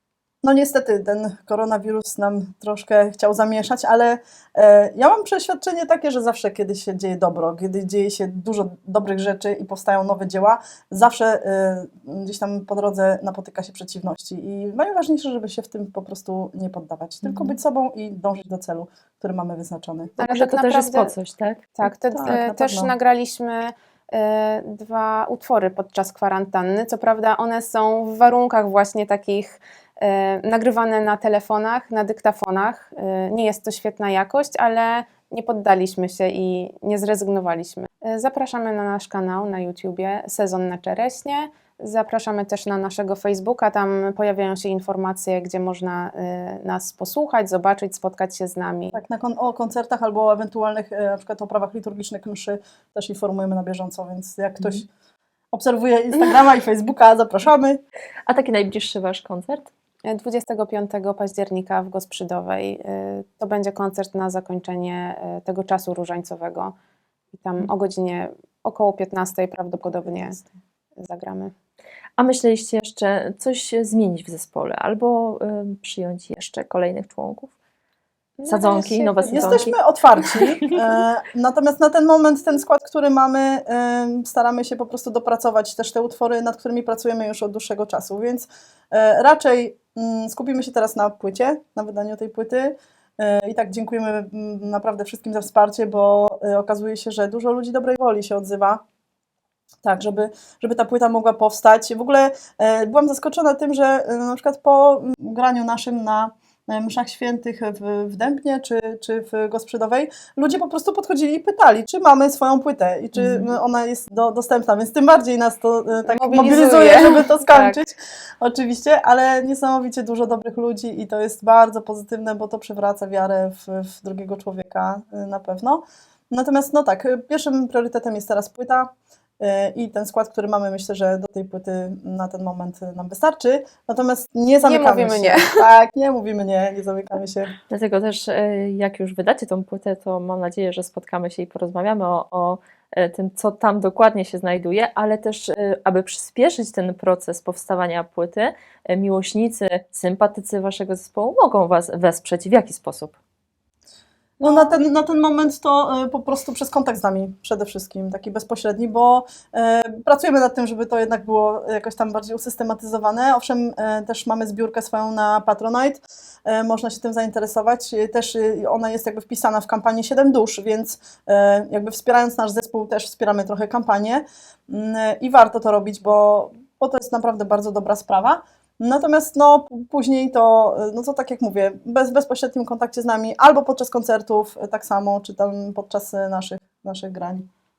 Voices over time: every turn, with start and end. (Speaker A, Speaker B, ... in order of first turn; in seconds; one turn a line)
Speaker A: 0.4-20.2
Speaker B: 17.2-17.5
Speaker B: 20.2-21.7
Speaker C: 20.2-21.1
Speaker C: 21.8-49.0
Speaker A: 22.1-22.9
Speaker A: 48.9-54.9
Speaker A: 55.5-57.8
Speaker B: 58.3-59.7
Speaker C: 60.0-66.7
Speaker C: 67.3-70.4
Speaker C: 71.0-71.5
Speaker B: 72.2-77.5
Speaker C: 78.4-79.7
Speaker B: 78.5-80.6
Speaker A: 79.3-98.8
Speaker A: 99.8-137.5
Speaker B: 113.2-113.5
Speaker C: 116.0-117.8
Speaker C: 134.6-135.7
Speaker B: 137.7-153.2
Speaker A: 154.4-187.5
Speaker C: 154.4-154.7